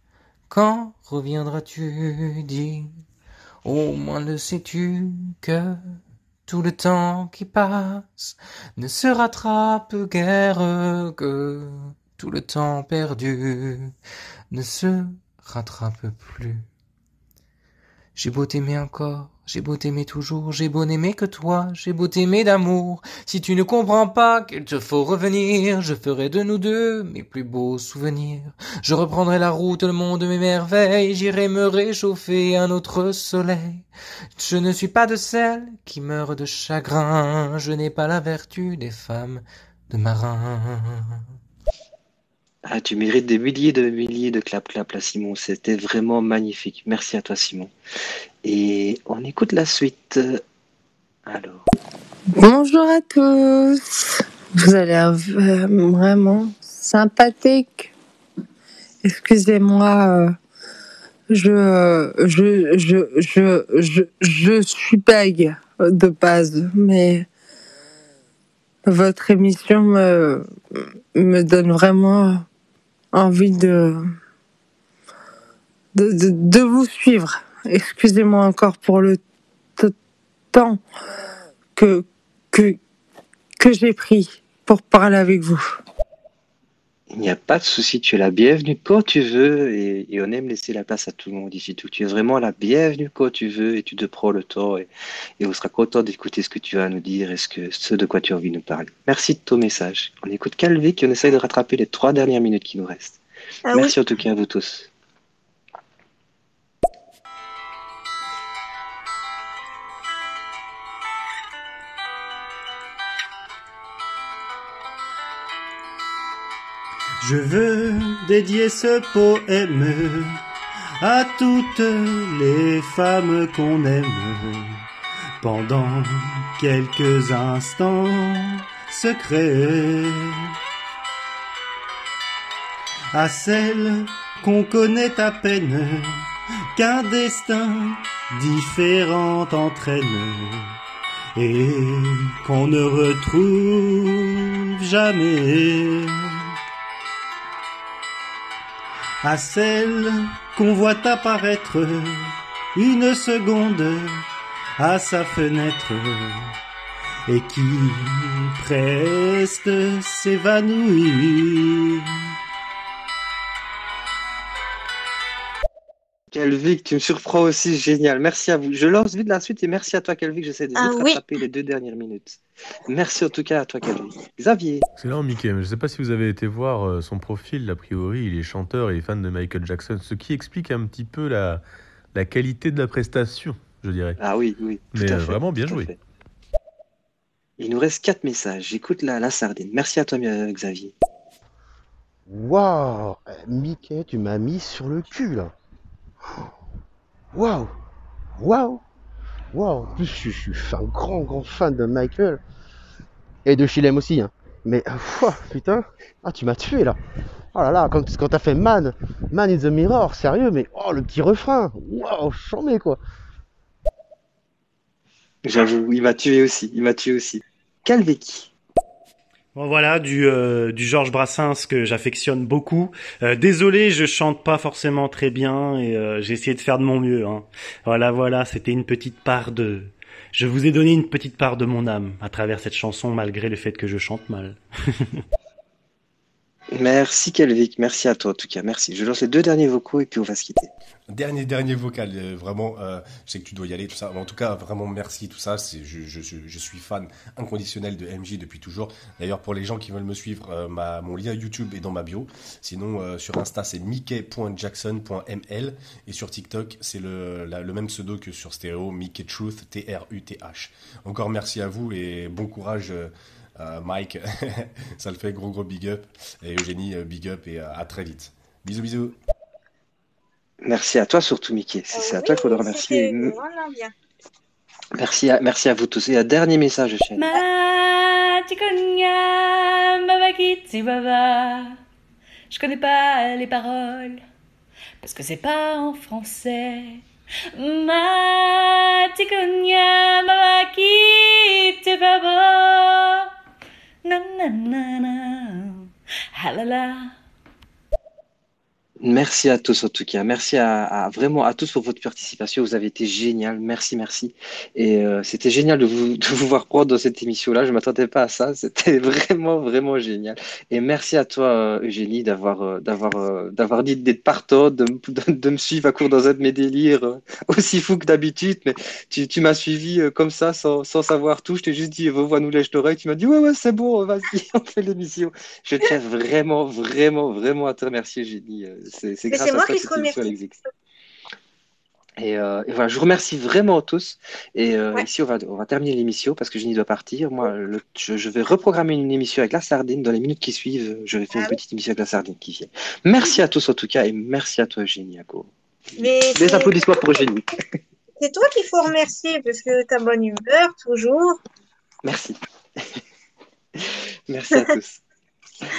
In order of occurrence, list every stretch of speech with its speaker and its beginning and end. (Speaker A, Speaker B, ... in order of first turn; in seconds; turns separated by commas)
Speaker A: 0.5-3.0, Speaker A: 3.6-13.9, Speaker A: 14.5-16.6, Speaker A: 18.1-41.2, Speaker B: 42.6-47.7, Speaker B: 48.4-50.4, Speaker B: 51.2-51.7, Speaker C: 52.3-57.9, Speaker C: 59.0-60.3, Speaker C: 61.3-67.3, Speaker C: 68.8-72.5, Speaker C: 73.1-74.0, Speaker C: 75.9-79.2, Speaker C: 80.5-80.8, Speaker C: 81.8-82.8, Speaker C: 83.6-85.6, Speaker B: 87.1-94.9, Speaker B: 95.4-103.2, Speaker D: 103.7-103.9, Speaker B: 103.7-104.9, Speaker E: 117.2-120.4, Speaker E: 121.0-124.8, Speaker E: 125.4-130.5, Speaker E: 133.1-140.7, Speaker E: 141.3-146.4, Speaker E: 149.2-154.2, Speaker E: 154.8-156.5, Speaker E: 157.3-162.1, Speaker B: 166.3-174.8, Speaker D: 170.8-171.2, Speaker F: 174.9-184.2, Speaker B: 184.2-186.0, Speaker F: 184.9-185.9, Speaker B: 187.6-190.9, Speaker G: 192.3-195.5, Speaker G: 197.3-197.7, Speaker G: 198.4-198.8, Speaker G: 199.5-202.4, Speaker G: 203.4-207.0, Speaker G: 207.5-213.0, Speaker B: 215.4-218.5, Speaker E: 219.5-235.2, Speaker B: 236.7-240.7, Speaker H: 241.1-269.2, Speaker B: 270.6-273.3, Speaker D: 271.9-273.9, Speaker B: 275.0-277.3, Speaker I: 277.2-281.8, Speaker I: 282.5-284.2, Speaker I: 285.0-293.3, Speaker I: 294.0-297.1, Speaker B: 299.0-330.6, Speaker D: 329.3-330.3, Speaker B: 332.2-347.4, Speaker D: 346.0-347.2, Speaker D: 348.2-351.4, Speaker B: 352.0-353.0, Speaker B: 353.8-355.0